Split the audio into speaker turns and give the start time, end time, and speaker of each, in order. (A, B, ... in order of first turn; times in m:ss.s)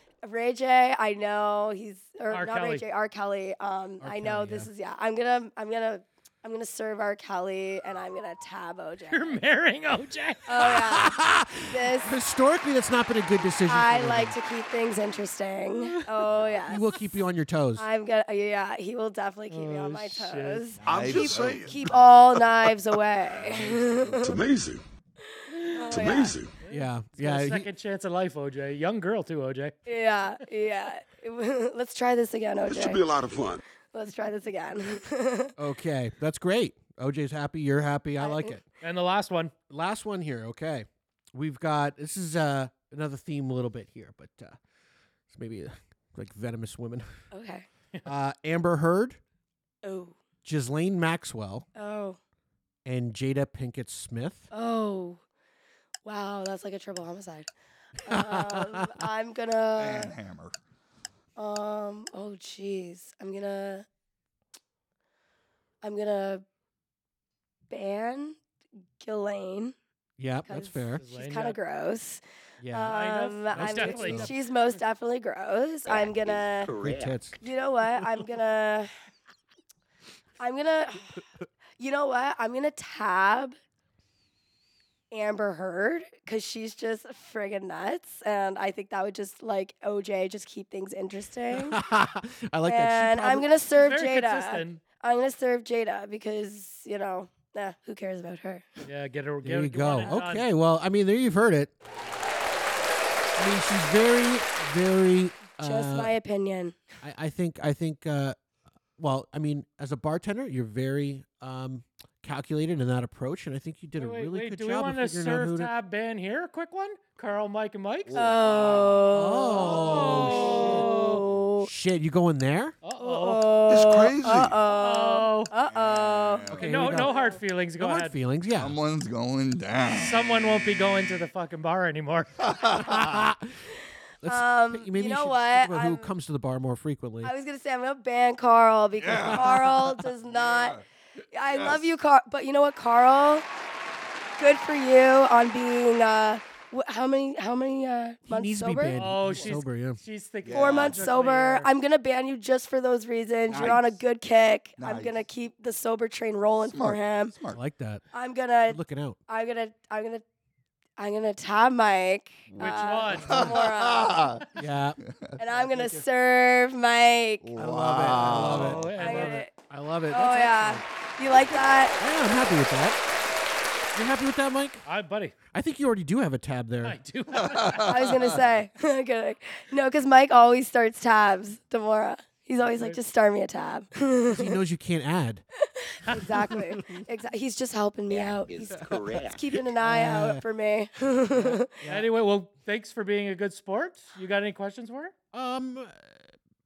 0:00.2-0:09.4 A
0:02.3-0:02.8 B
0:04.0-0:04.7 C
0:09.1-0:10.8 B
0:10.5-0:12.1 A
0:10.6-0:14.4 C
0:13.7-0:17.0 A
0:16.7-0:17.9 C
0:17.8-0:24.4 A
0:19.5-0:20.7 B
0:20.8-0:21.3 C
0:20.8-0:21.8 D
0:20.9-0:22.1 E
0:24.2-0:24.8 D
0:25.5-0:29.8 B
0:25.7-0:26.4 A
0:25.9-0:26.5 D
0:26.7-0:27.7 C
0:29.8-0:33.0 A
0:32.7-0:33.6 D
0:33.9-0:35.6 A
0:35.6-0:38.6 C
0:38.2-0:38.6 A
0:38.8-0:39.5 B
0:39.7-0:44.6 C
0:45.3-0:47.1 C
0:47.3-0:47.7 A
0:48.1-0:49.2 C
0:49.8-0:50.2 A
0:50.4-0:51.7 C
0:51.7-0:52.2 A
0:52.8-0:54.5 C
0:54.5-0:55.2 A
0:56.0-0:57.5 A
0:58.0-1:00.2 A
0:58.1-0:59.0 C
0:59.8-1:00.6 E
1:01.4-1:03.8 A
1:05.8-1:06.4 A
1:07.7-1:08.4 A
1:09.0-1:09.7 A
1:10.2-1:11.0 C
1:10.5-1:16.8 A
1:10.9-1:11.6 B
1:12.6-1:12.9 C
1:12.9-1:14.3 B
1:13.5-1:14.4 C
1:16.7-1:17.4 C
1:17.4-1:18.9 A
1:20.4-1:21.2 A
1:21.8-1:23.6 A
1:25.1-1:31.8 A
1:31.6-1:33.5 C
1:32.6-1:38.6 A
1:33.7-1:34.8 B
1:38.8-1:40.5 B
1:39.4-1:41.7 C
1:43.4-1:46.1 C
1:45.5-1:46.8 A
1:47.0-1:48.4 C
1:49.0-1:55.7 C
1:54.0-2:01.2 B
1:58.1-1:59.0 E
1:58.1-2:01.7 A
1:59.1-2:00.7 C
1:59.7-2:00.0 E
2:00.6-2:01.2 E
2:01.6-2:02.8 C
2:02.8-2:03.5 B
2:03.0-2:07.4 A
2:03.7-2:04.6 D
2:04.6-2:05.5 B
2:05.5-2:06.9 E
2:06.5-2:07.1 C
2:06.6-2:08.1 B
2:07.8-2:08.8 C
2:08.6-2:10.4 E
2:09.9-2:12.4 B
2:12.4-2:13.3 E
2:12.7-2:13.6 C
2:14.2-2:17.3 C
2:14.2-2:16.1 A
2:17.2-2:20.8 A
2:19.0-2:20.8 E
2:19.1-2:19.8 C
2:21.3-2:23.4 A
2:21.5-2:21.9 E
2:24.4-2:29.2 A
2:28.3-2:30.0 C
2:29.0-2:31.7 B
2:30.4-2:31.1 E
2:30.5-2:37.4 A
2:33.5-2:34.0 E
2:34.8-2:35.2 E
2:36.7-2:37.6 E
2:37.5-2:38.0 C
2:38.1-2:40.2 A
2:38.7-2:39.2 C
2:41.0-2:44.4 A
2:42.5-2:44.5 E
2:42.6-2:43.5 B
2:44.6-2:45.0 C
2:45.0-2:45.4 E
2:45.4-2:47.5 A
2:45.5-2:46.0 B
2:47.4-2:48.9 E
2:47.6-2:50.8 C
2:48.2-2:49.5 B
2:49.0-2:49.5 A
2:50.1-2:52.0 A
2:52.0-2:53.0 C
2:53.9-2:54.8 C
2:54.8-2:55.4 B
2:55.5-2:57.0 C
2:56.8-2:58.4 B
2:57.4-2:58.3 E
2:57.8-3:04.6 A
3:02.6-3:03.0 B
3:04.3-3:05.4 C
3:05.8-3:11.8 A
3:06.0-3:06.3 B
3:06.1-3:07.0 C
3:08.7-3:09.2 C
3:09.8-3:10.4 C
3:11.4-3:15.1 B
3:11.8-3:12.1 C
3:15.3-3:16.2 C